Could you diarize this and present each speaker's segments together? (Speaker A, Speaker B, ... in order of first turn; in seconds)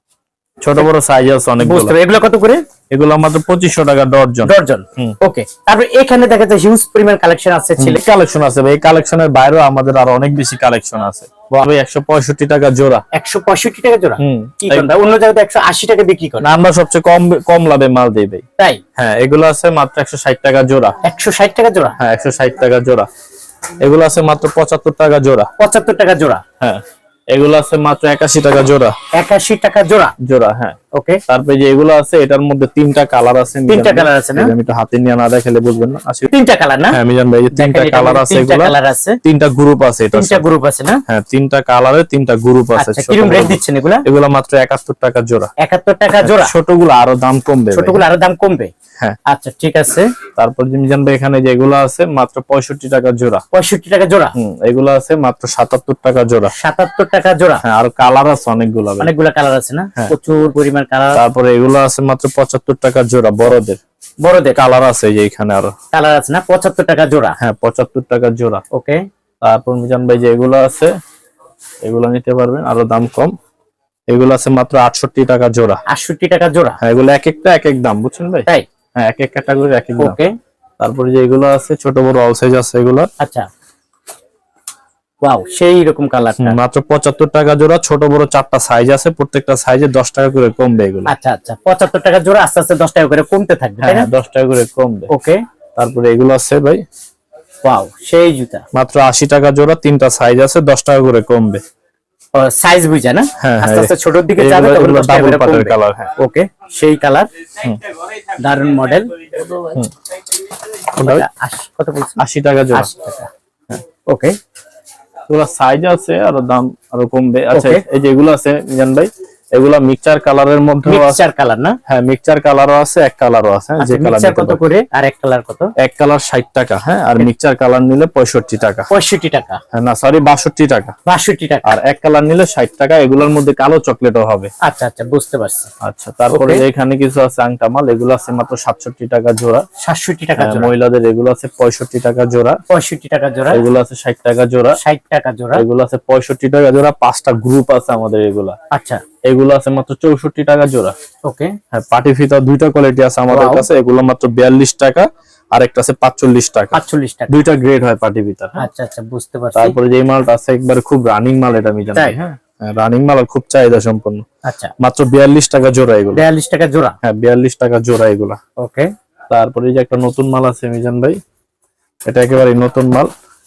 Speaker A: 0.6-1.9, 2.9-5.2, 7.8-13.0, 14.2-14.9, 16.4-18.4, 19.0-21.0, 22.0-23.1, 23.8-25.5, 27.3-28.9, 30.2-30.8, 31.3-36.3, 36.9-40.4, 41.1-45.5, 46.2-48.0, 50.4-53.4, 54.4-56.5, 57.6-59.1, 61.1-63.8, 64.5-65.7, 67.4-68.6, 69.4-70.9, 71.8-73.3, 74.1-75.8, 76.8-80.2, 80.8-83.1, 86.4-91.1, 93.8-95.1, 95.8-96.8, 98.7-101.6, 103.4-106.1, 111.0-111.3, 112.2-112.9, 115.3-121.2, 121.9-124.6, 125.8-128.9, 129.7-130.9, 131.7-134.5, 135.8-139.6, 140.4-142.6, 143.5-144.8, 145.6-148.6, 149.2-150.9, 151.7-156.8, 157.3-158.6, 159.6-164.2, 164.8-166.2, 167.0-168.4, 169.3-171.2, 172.1-173.1
Speaker B: 1.6-2.6, 4.4-8.0, 13.1-16.5, 21.0-22.0, 25.6-26.4, 29.1-30.1, 30.9-31.2, 33.7-34.5, 36.3-37.0, 37.5-39.2, 40.1-41.0, 42.8-44.1, 45.6-46.5, 47.7-48.7, 49.3-50.1, 53.5-54.3, 56.5-57.6, 59.0-61.2, 64.2-64.7, 65.9-67.4, 68.7-69.0, 75.9-76.8, 80.0-80.3, 83.2-83.5, 85.2-86.6, 91.1-94.1, 95.1-95.4, 97.6-98.6, 102.3-107.3, 108.4-109.5, 111.0-112.2, 112.7-113.3, 114.1-114.4, 117.5-117.8, 120.8-121.8, 123.8-125.7, 128.9-129.6, 131.1-131.7, 134.6-135.7, 136.3-136.6, 139.8-140.7, 142.7-143.6, 144.8-145.6, 148.7-149.0, 151.2-151.6, 153.3-153.6, 156.7-157.3, 158.6-159.8, 164.4-164.7, 166.1-166.9, 168.6-168.9